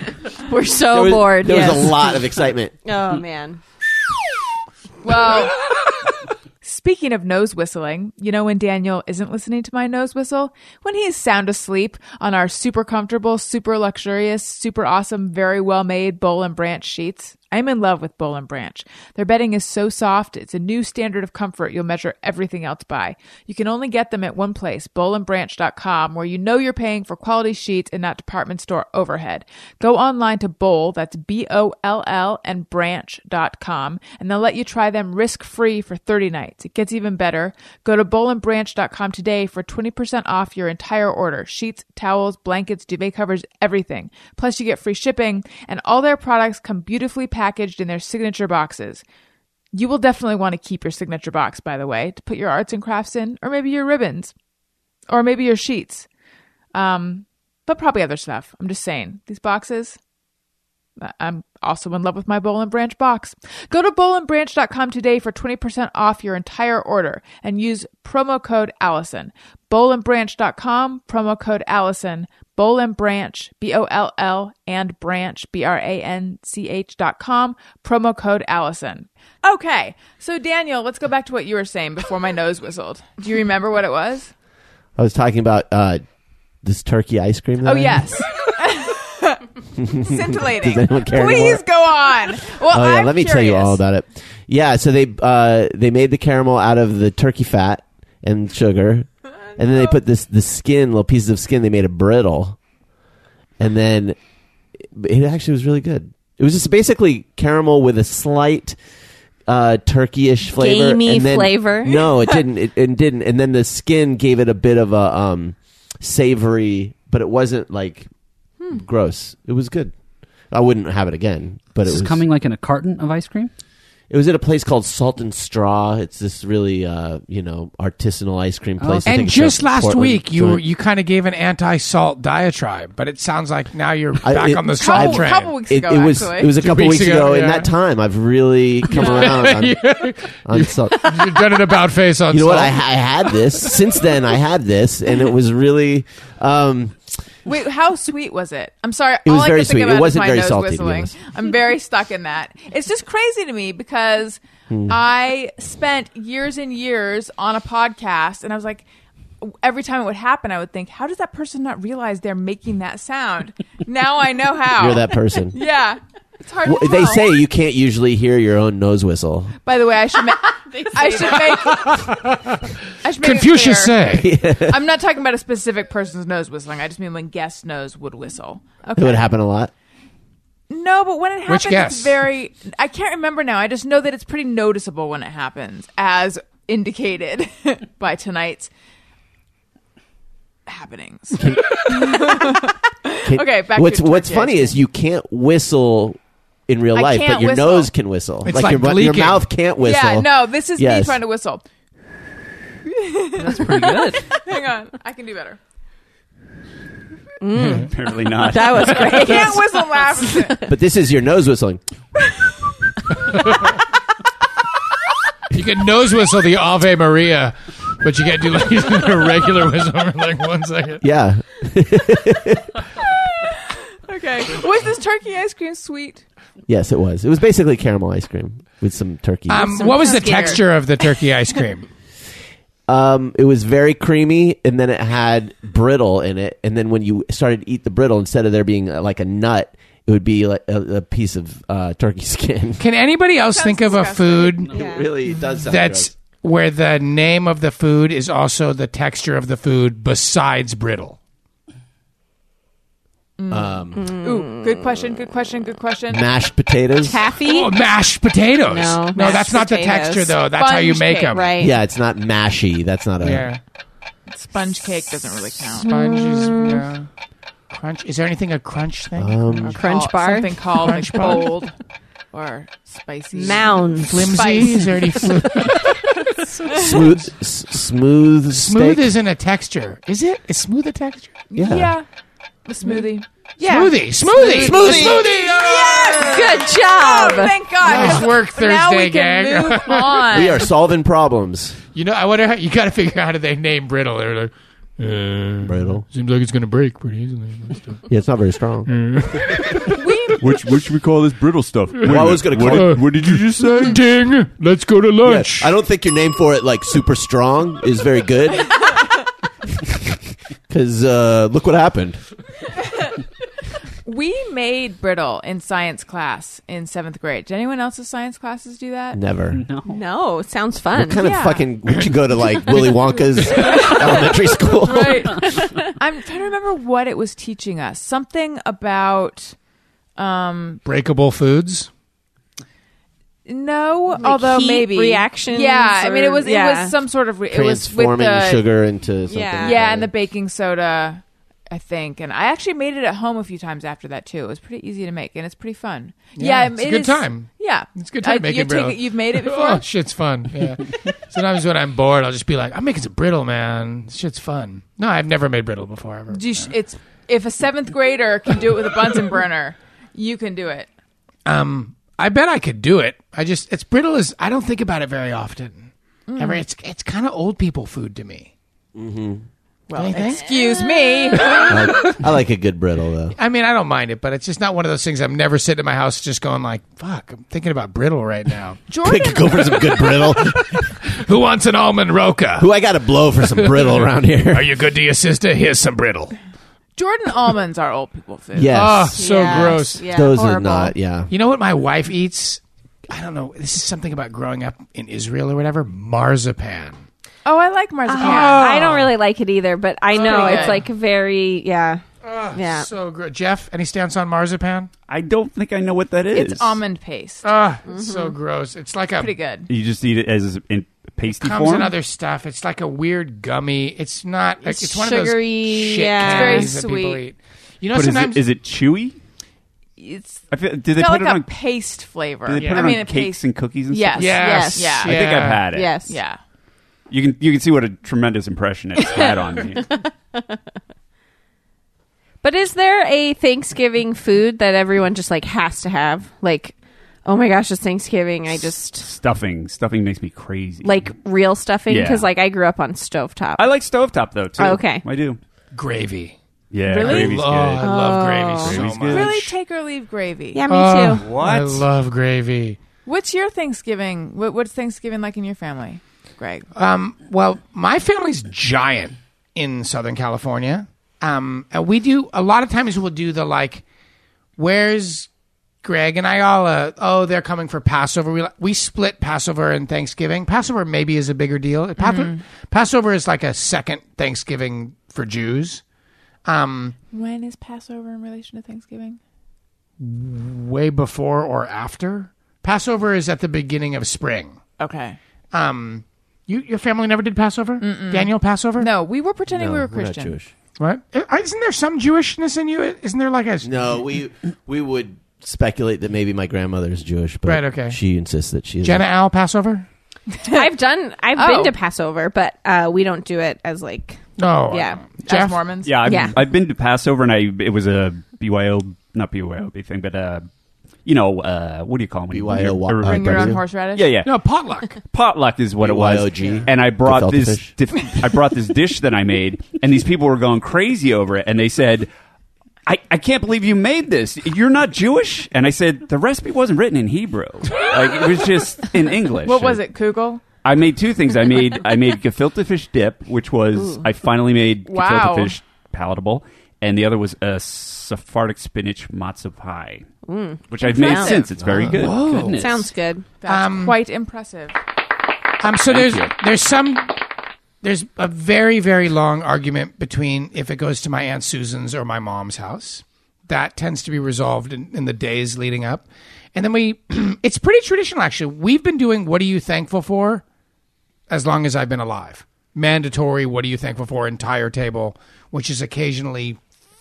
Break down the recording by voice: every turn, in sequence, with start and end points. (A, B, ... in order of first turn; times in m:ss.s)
0:00.4-0:02.3 A
0:00.9-0:02.7 B
0:02.8-0:03.6 A
0:05.0-0:05.6 C
0:06.6-0:49.0 C
0:49.7-0:54.3 C
0:55.1-0:56.1 C
0:56.7-1:00.0 C
1:01.0-1:24.3 C
1:25.0-1:26.0 B
1:26.6-1:28.2 B
1:27.6-1:33.8 C
1:29.8-1:31.6 B
1:32.7-1:42.6 B
1:43.6-1:44.2 B
1:44.8-1:48.8 B
1:49.5-1:58.1 B
1:50.5-1:52.0 A
1:58.7-1:59.9 B
2:00.5-2:02.2 B
2:01.9-2:03.5 D
2:04.1-2:10.6 B
2:08.8-2:09.2 D
2:09.1-2:15.6 E
2:14.2-2:21.5 B
2:14.8-2:16.6 C
2:16.5-2:17.7 E
2:18.9-2:22.8 E
2:18.9-2:19.4 C
2:22.3-2:27.2 B
2:23.3-2:23.7 E
2:27.5-2:38.8 C
2:29.2-2:31.2 B
2:34.7-2:35.0 B
2:39.4-2:47.4 C
2:44.8-2:45.6 B
2:46.6-2:49.6 B
2:49.6-2:51.9 C
2:50.4-2:51.9 A
2:51.6-2:54.3 E
2:53.0-2:59.3 C
2:54.1-2:54.8 B
2:59.0-2:59.7 B
3:00.7-3:08.7 C
3:01.5-3:02.2 E
3:10.7-3:14.8 C
3:11.4-3:12.5 B
3:13.2-3:21.2 B
3:16.9-3:17.9 C
3:18.4-3:19.5 E
3:19.8-3:21.6 C
3:22.9-3:25.6 C
3:23.4-3:24.3 D
3:27.4-3:30.7 A
3:27.5-3:27.9 E
3:27.7-3:29.3 F
3:28.9-3:29.2 E
3:29.0-3:30.6 C
3:30.7-3:31.8 B
3:33.2-3:33.8 E
3:35.5-3:41.0 E
3:41.0-3:42.7 B
3:43.4-3:46.2 C
3:46.7-3:49.8 B
3:49.5-3:51.9 E
3:49.6-3:50.6 A
3:49.6-3:50.6 C
3:52.9-4:02.8 B
4:02.8-4:04.7 E
4:03.5-4:04.7 C
4:04.7-4:05.1 A
4:04.7-4:06.1 B
4:05.5-4:11.2 E
4:13.4-4:16.2 C
4:13.5-4:14.1 B
4:14.0-4:15.0 A
4:16.1-4:17.2 B
4:17.0-4:17.7 A
4:17.4-4:21.5 E
4:18.7-4:20.4 A
4:20.5-4:21.4 C
4:21.3-4:21.7 A
4:21.6-4:23.5 B
4:23.2-4:23.6 E
4:24.3-4:25.9 C
4:25.8-4:27.1 E
4:25.9-4:26.8 A
4:27.7-4:29.8 E
4:29.2-4:29.8 B
4:29.7-4:31.8 C
4:29.8-4:31.4 A
4:30.8-4:31.6 E
4:32.3-4:35.8 C
4:33.3-4:34.5 A
4:34.0-4:37.2 E
4:36.7-4:39.1 B
4:38.5-4:41.4 E
4:41.5-4:42.1 C
4:41.6-4:42.0 B
4:42.7-4:43.3 C
4:43.6-4:45.2 A
4:43.6-4:46.4 E
4:44.3-4:45.3 B
4:45.5-4:50.7 C
4:45.9-4:48.2 A
4:47.8-4:50.4 E
4:50.3-4:51.8 B
4:51.9-4:58.0 E
4:55.6-4:56.0 B
4:58.1-4:58.9 B
4:58.9-5:00.4 E
5:00.0-5:00.4 C
5:00.4-5:04.0 F
5:02.0-5:05.7 E
5:02.1-5:03.0 B
5:05.2-5:08.9 B
5:09.7-5:12.2 B
5:14.0-5:19.2 C
5:19.1-5:19.6 B
5:19.5-5:20.0 D
5:19.9-5:21.2 A
5:21.0-5:25.5 B
5:21.2-5:21.7 C
5:23.5-5:23.9 E
5:23.6-5:24.3 C
5:24.8-5:29.6 C
5:30.2-5:30.8 C
5:30.8-5:31.9 E
5:33.5-5:38.6 C
5:34.2-5:37.0 A
5:37.5-5:40.1 B
5:39.3-5:39.8 A
5:39.6-5:49.8 C
5:46.4-5:56.7 E
5:56.3-6:00.9 C
6:01.5-6:08.5 E
6:06.3-6:06.6 C
6:09.0-6:09.5 B
6:09.9-6:12.1 C
6:10.0-6:10.5 E
6:10.5-6:11.4 A
6:11.5-6:12.1 E
6:11.7-6:13.4 B
6:13.3-6:18.8 E
6:18.9-6:20.1 C
6:19.0-6:20.7 B
6:19.7-6:22.7 E
6:22.6-6:24.7 B
6:23.4-6:26.4 E
6:27.0-6:28.9 C
6:28.6-6:31.3 B
6:28.7-6:30.1 E
6:29.2-6:30.9 A
6:31.3-6:37.0 E
6:37.4-6:38.7 C
6:38.1-6:42.9 A
6:38.2-6:39.1 E
6:40.1-6:40.8 E
6:40.2-6:40.8 C
6:42.2-6:44.9 E
6:45.1-6:46.8 F
6:46.3-6:47.5 C
6:47.4-6:49.3 E
6:47.9-6:48.4 A
6:49.2-6:49.7 C
6:49.7-6:52.0 F
6:51.3-6:58.4 E
6:54.6-6:56.7 A
6:56.2-6:57.2 C
6:57.9-6:59.2 F
7:00.0-7:05.2 C
7:00.5-7:01.6 F
7:02.5-7:06.0 F
7:02.6-7:03.0 E
7:04.2-7:05.7 E
7:04.4-7:05.1 A
7:05.7-7:06.2 A
7:06.0-7:06.4 C
7:07.1-7:10.0 F
7:09.8-7:10.6 A
7:12.4-7:19.1 A
7:19.0-7:21.2 F
7:20.8-7:23.6 A
7:21.9-7:22.3 F
7:23.6-7:25.4 F
7:24.6-7:25.1 A
7:25.7-7:26.4 E
7:26.7-7:27.9 F
7:26.9-7:27.4 C
7:26.9-7:29.5 E
7:27.8-7:28.9 A
7:28.6-7:29.4 F
7:29.1-7:30.6 C
7:30.5-7:31.3 A
7:30.7-7:32.8 E
7:31.2-7:31.9 F
7:33.1-7:36.7 C
7:36.8-7:43.8 E
7:44.6-7:45.3 E
7:45.8-7:55.8 E
7:52.0-7:52.4 C
7:56.4-7:57.0 E
7:57.1-7:59.2 C
8:00.0-8:04.6 E
8:04.8-8:05.2 C
8:05.5-8:08.9 E
8:07.8-8:10.4 C
8:09.5-8:10.5 B
8:10.8-8:13.7 E
8:13.6-8:19.0 B
8:17.5-8:18.0 E
8:18.8-8:19.9 E
8:20.4-8:20.6 C
8:20.5-8:25.0 A
8:21.4-8:21.7 C
8:24.4-8:25.7 E
8:25.2-8:26.2 C
8:25.8-8:30.5 F
8:26.0-8:26.4 A
8:31.0-8:34.4 F
8:32.3-8:33.6 B
8:33.1-8:34.2 C
8:34.2-8:35.0 E
8:35.0-8:42.1 F
8:35.8-8:37.7 B
8:42.9-8:49.8 F
8:49.4-8:50.4 C
8:50.6-9:00.1 F
8:53.8-8:54.0 A
8:54.9-8:55.6 C
9:00.3-9:01.5 A
9:00.7-9:02.8 F
9:00.8-9:01.5 C
9:01.6-9:02.0 B
9:01.9-9:02.6 E
9:02.4-9:03.3 A
9:03.4-9:04.8 C
9:03.5-9:04.0 E
9:05.6-9:07.2 E
9:05.9-9:06.3 F
9:07.8-9:20.4 E
9:21.3-9:26.6 E